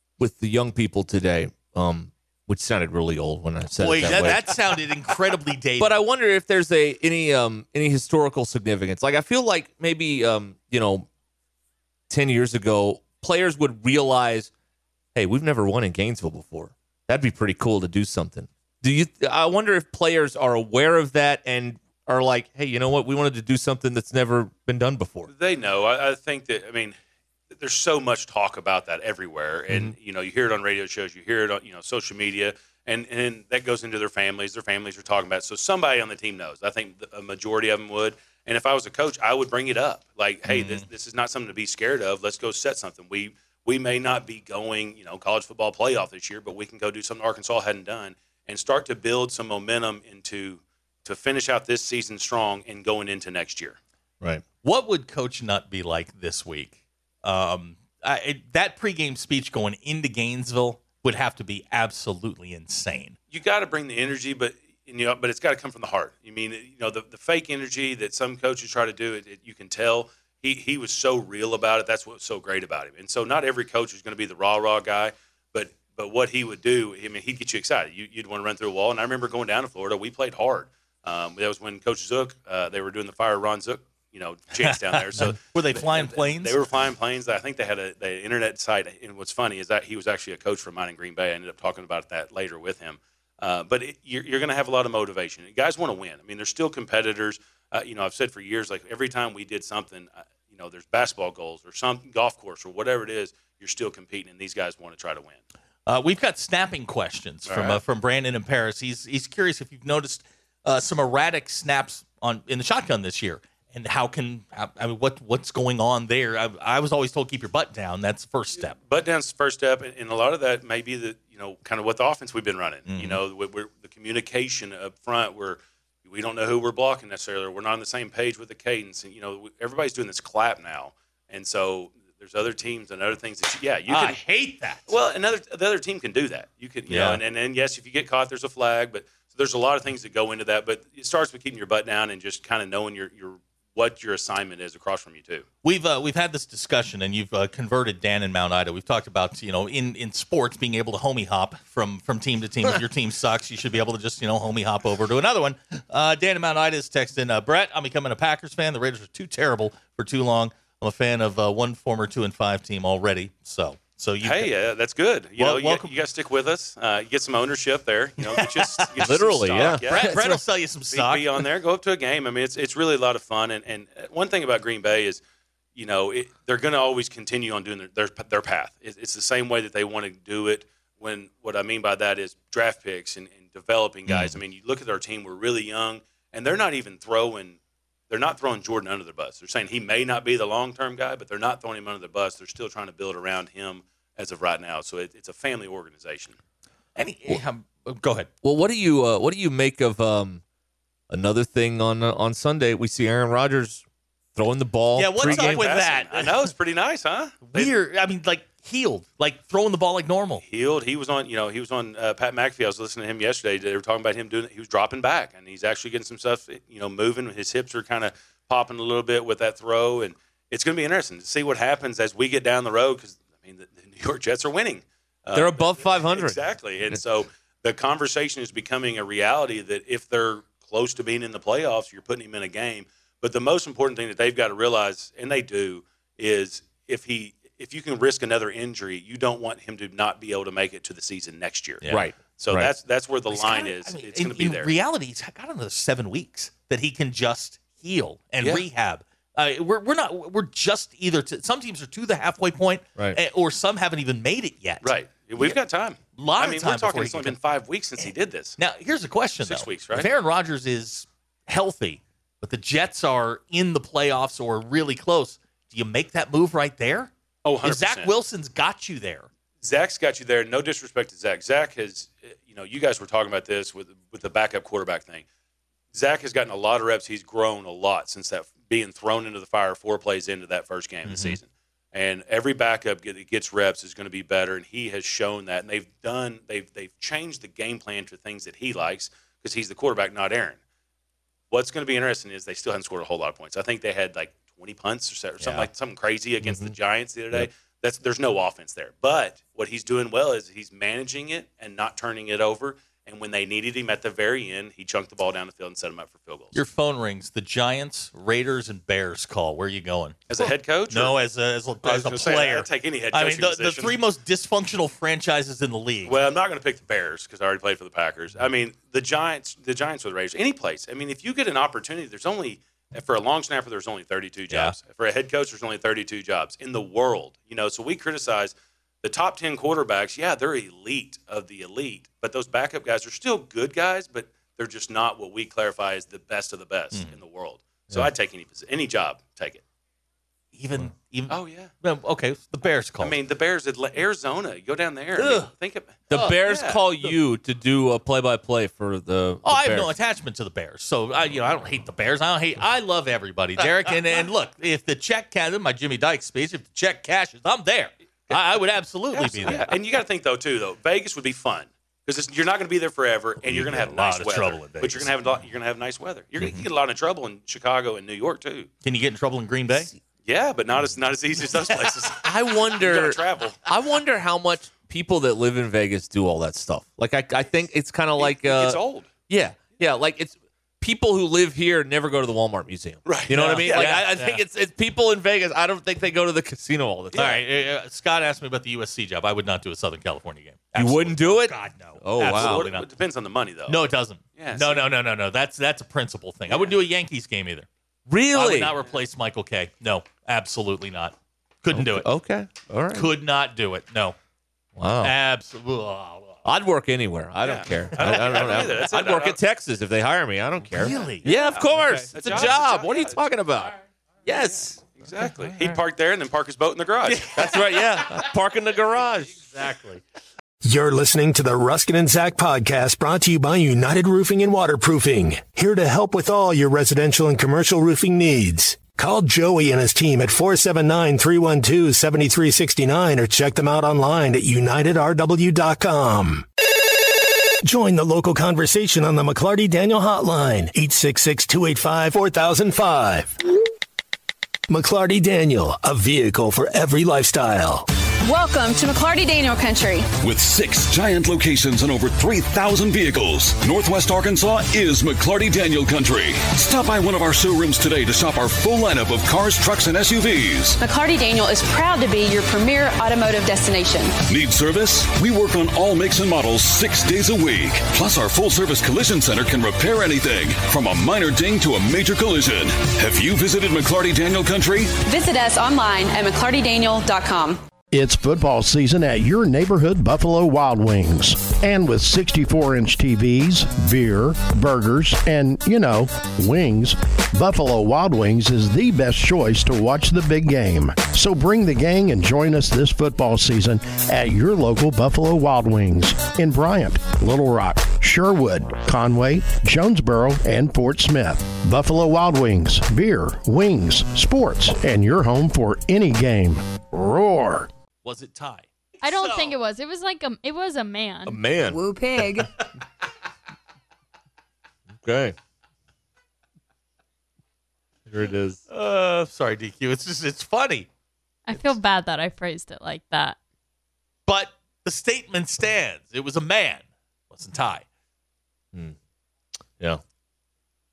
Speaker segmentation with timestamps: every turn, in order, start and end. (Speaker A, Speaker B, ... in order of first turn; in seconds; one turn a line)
Speaker A: 0.2-4.8
Speaker B: 3.8-6.0
Speaker A: 5.8-11.1
Speaker A: 12.1-14.5
Speaker A: 15.2-25.3
Speaker C: 25.3-27.0
Speaker C: 27.5-53.8
Speaker A: 29.7-29.9
Speaker B: 40.5-40.9
Speaker B: 54.6-63.2
Speaker C: 63.3-105.4
Speaker B: 84.6-86.6
Speaker B: 105.9-118.8
Speaker C: 107.5-107.8
Speaker C: 118.8-134.2
Speaker B: 122.9-123.2
Speaker B: 133.9-134.8
Speaker C: 134.9-145.5
Speaker B: 136.9-137.2
Speaker B: 145.6-164.6
Speaker C: 164.2-170.3
Speaker B: 165.4-165.9
Speaker B: 168.2-171.5
Speaker A: 169.0-170.4
Speaker C: 170.9-175.2
Speaker C: 175.8-187.6
Speaker C: 188.1-196.4
Speaker B: 197.0-198.3
Speaker A: 198.4-200.4
Speaker A: 201.1-203.8
Speaker A: 204.3-205.7
Speaker B: 205.0-206.5
Speaker C: 205.2-207.7
Speaker B: 207.4-210.4
Speaker C: 210.4-244.7
Speaker A: 225.3-227.0
Speaker B: 241.8-242.1
Speaker A: 241.9-242.7
Speaker B: 243.3-255.6
Speaker C: 248.4-248.7
Speaker C: 254.8-258.6
Speaker B: 256.2-257.4
Speaker B: 258.6-267.1
Speaker C: 259.4-260.1
Speaker C: 267.4-268.1
Speaker B: 267.6-269.3
Speaker C: 269.6-275.2
Speaker C: 275.9-290.6
Speaker B: 281.1-281.4
Speaker C: 291.5-306.6
Speaker B: 295.4-295.7
Speaker A: 296.4-296.7
Speaker B: 306.5-316.2
Speaker C: 310.3-311.2
Speaker C: 311.8-314.0
Speaker C: 316.1-339.6
Speaker B: 324.5-324.8
Speaker B: 340.5-343.2
Speaker C: 341.3-341.7
Speaker C: 343.0-346.8
Speaker B: 345.2-345.5
Speaker A: 346.1-349.9
Speaker B: 346.1-346.4
Speaker B: 349.4-359.7
Speaker C: 358.3-358.6
Speaker C: 359.1-368.7
Speaker B: 363.4-365.1
Speaker B: 368.8-369.9
Speaker C: 370.2-373.6
Speaker A: 372.2-387.4
Speaker C: 378.2-379.1
Speaker C: 383.1-383.9
Speaker B: 383.3-384.4
Speaker B: 387.1-392.9
Speaker A: 390.8-392.7
Speaker C: 392.3-393.8
Speaker B: 393.7-397.7
Speaker C: 394.4-394.9
Speaker A: 398.1-398.8
Speaker B: 398.3-402.1
Speaker A: 401.7-403.1
Speaker B: 402.9-404.2
Speaker A: 404.8-405.1
Speaker B: 405.0-406.4
Speaker A: 406.4-413.8
Speaker C: 407.4-409.4
Speaker B: 407.9-409.1
Speaker B: 410.7-412.5
Speaker C: 411.3-413.2
Speaker A: 414.3-414.8
Speaker C: 414.4-417.3
Speaker B: 417.1-418.3
Speaker A: 417.3-419.4
Speaker B: 419.3-420.0
Speaker D: 420.6-436.5
Speaker D: 437.6-443.4
Speaker D: 444.7-447.9
Speaker E: 448.2-450.1
Speaker F: 450.2-460.8
Speaker E: 460.8-464.1
Speaker F: 464.3-475.0
Speaker E: 475.0-477.6
Speaker G: 477.9-507.7
Speaker B: 508.0-509.6
Speaker H: 509.0-511.4
Speaker A: 511.3-512.4
Speaker A: 515.0-515.4
Speaker A: 518.1-518.6
Speaker B: 518.7-520.9
Speaker H: 521.5-523.4
Speaker B: 524.3-527.9